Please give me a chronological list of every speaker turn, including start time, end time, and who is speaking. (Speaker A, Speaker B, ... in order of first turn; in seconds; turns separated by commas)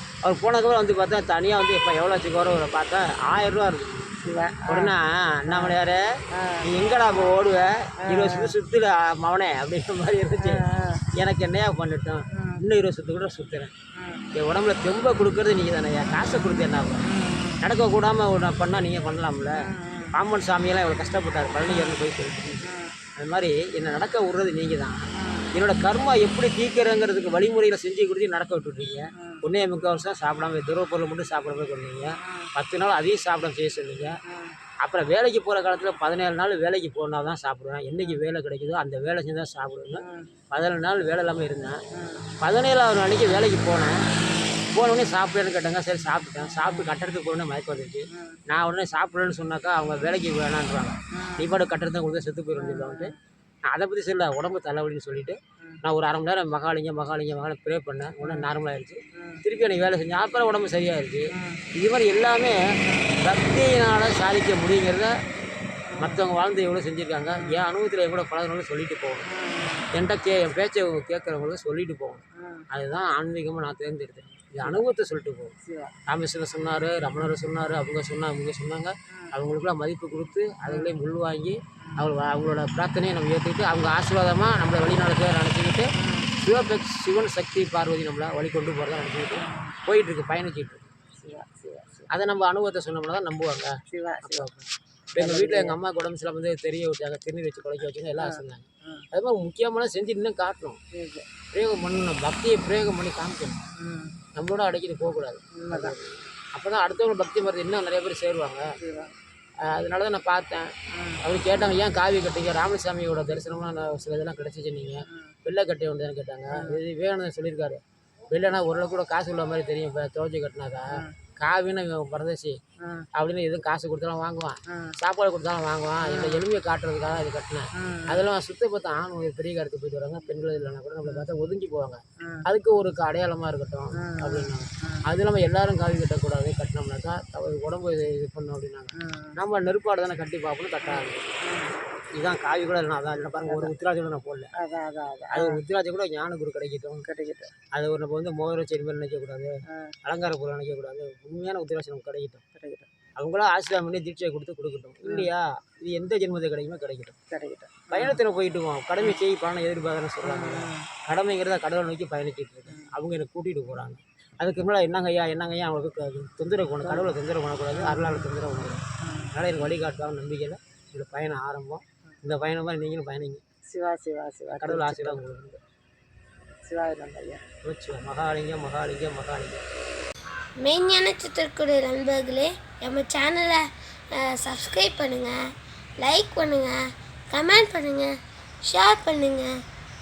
Speaker A: 0.2-4.0, Speaker B: 4.2-4.9, Speaker A: 4.7-6.1, Speaker B: 5.5-5.8, Speaker B: 6.3-6.7, Speaker A: 6.6-10.6, Speaker B: 8.1-8.5, Speaker B: 10.4-11.0, Speaker A: 11.2-13.7, Speaker B: 12.3-12.6, Speaker B: 14.0-14.2, Speaker A: 14.3-17.0, Speaker B: 17.1-17.6, Speaker A: 17.6-19.5, Speaker B: 19.6-20.1, Speaker A: 20.1-25.0, Speaker B: 21.6-22.0, Speaker B: 22.6-22.9, Speaker B: 25.2-25.5, Speaker A: 25.5-34.2, Speaker B: 32.2-32.5, Speaker B: 34.3-34.5, Speaker A: 34.8-41.8, Speaker B: 40.0-40.3, Speaker B: 41.9-42.2, Speaker A: 42.4-44.0, Speaker A: 44.7-53.1, Speaker B: 48.1-48.4, Speaker B: 51.1-51.5, Speaker B: 52.5-53.1, Speaker A: 53.7-62.6, Speaker B: 58.2-58.5, Speaker B: 59.2-59.4, Speaker B: 61.3-61.6, Speaker A: 63.1-65.1, Speaker B: 65.9-66.2, Speaker A: 66.0-69.3, Speaker B: 67.3-67.6, Speaker B: 69.2-69.9, Speaker A: 69.9-75.5, Speaker B: 72.4-72.7, Speaker B: 75.7-75.9, Speaker A: 76.1-90.9, Speaker B: 80.7-81.0, Speaker B: 86.0-86.3, Speaker B: 91.2-92.1, Speaker A: 92.1-100.8, Speaker B: 93.9-94.5, Speaker B: 95.2-95.8, Speaker B: 98.2-99.0, Speaker B: 100.9-101.2, Speaker A: 101.5-103.6, Speaker B: 103.8-104.1, Speaker A: 104.3-108.7, Speaker B: 105.6-106.0, Speaker B: 108.8-109.1, Speaker A: 109.6-110.7, Speaker B: 110.9-111.2, Speaker A: 111.2-117.8, Speaker B: 116.5-116.8, Speaker A: 118.3-122.6, Speaker B: 122.8-123.1, Speaker A: 123.1-141.3, Speaker B: 124.7-124.9, Speaker B: 126.0-126.4, Speaker B: 127.8-128.2, Speaker B: 134.0-135.0, Speaker B: 139.0-139.3, Speaker B: 140.8-141.7, Speaker A: 142.2-144.5, Speaker B: 143.5-143.7, Speaker B: 144.6-145.6, Speaker A: 145.3-147.0, Speaker B: 147.0-147.5, Speaker A: 147.7-149.5, Speaker A: 150.0-152.4, Speaker B: 152.6-152.9, Speaker A: 153.2-157.2, Speaker B: 155.0-155.3, Speaker B: 157.3-158.2, Speaker A: 157.9-168.8, Speaker B: 160.2-160.9, Speaker B: 166.8-167.1, Speaker B: 167.7-168.3, Speaker B: 169.0-169.3, Speaker A: 169.3-173.4, Speaker B: 173.7-175.2, Speaker A: 174.6-175.6, Speaker B: 176.7-177.4, Speaker A: 177.6-179.6, Speaker C: 180.6-185.4, Speaker C: 186.0-186.8, Speaker C: 187.3-188.1, Speaker C: 188.6-189.5